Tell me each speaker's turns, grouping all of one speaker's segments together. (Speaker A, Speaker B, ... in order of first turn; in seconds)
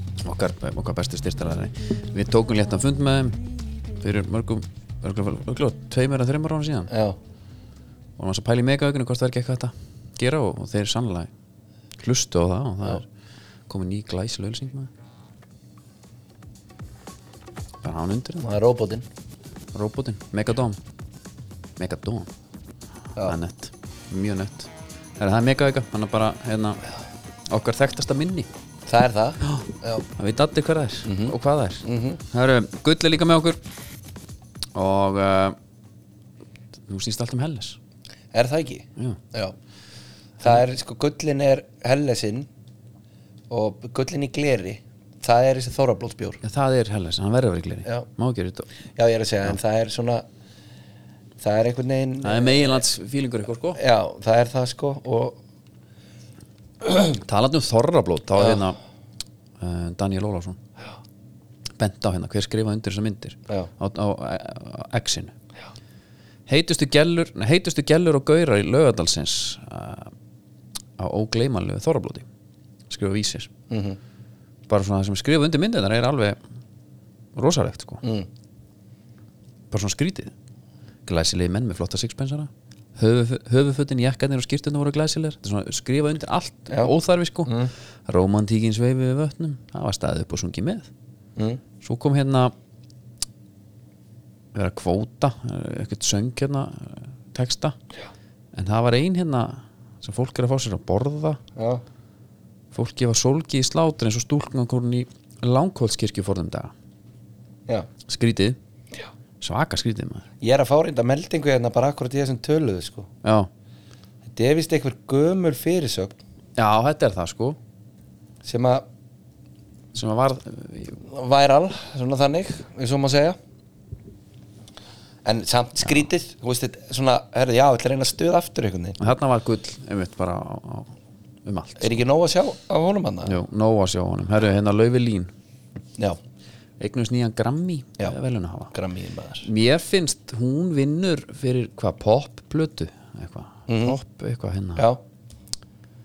Speaker A: 0.2-3.4, 4.0-6.9, 8.2-11.3, 12.0-13.1, 13.7-14.9, 17.8-18.5, 19.7-20.8, 21.8-22.3, 23.2-26.8, 27.5-28.5, 29.4-33.6, 34.7-35.5, 36.9-37.8, 46.4-48.7, 52.2-53.8, 57.2-58.8, 59.6-60.6, 61.8-65.3, 66.5-70.1, 71.0-72.2, 72.9-73.5, 74.7-76.4, 77.3-78.0, 79.7-80.3, 81.0-87.5, 88.0-90.9, 91.8-92.5, 94.5-97.8, 98.5-101.4, 102.7-106.7, 108.1-108.6, 109.4-110.2, 113.2-113.5, 116.5-117.6, 119.9-121.0, 129.0-130.9, 131.4-132.0, 133.2-135.3, 136.8-138.7, 139.4-144.8
Speaker B: 6.9-7.2, 18.4-19.0, 28.9-30.0, 31.0-32.2, 38.3-39.5, 40.4-42.5, 43.5-46.4, 49.0-50.2, 51.4-52.8, 53.8-55.4, 58.4-58.6, 73.7-74.0, 78.0-78.3, 87.4-87.7, 101.5-101.8, 110.4-113.1, 114.3-116.1, 118.4-118.8, 121.1-123.4, 125.2-129.0, 131.8-133.4, 138.7-139.5, 143.7-144.0, 144.8-145.0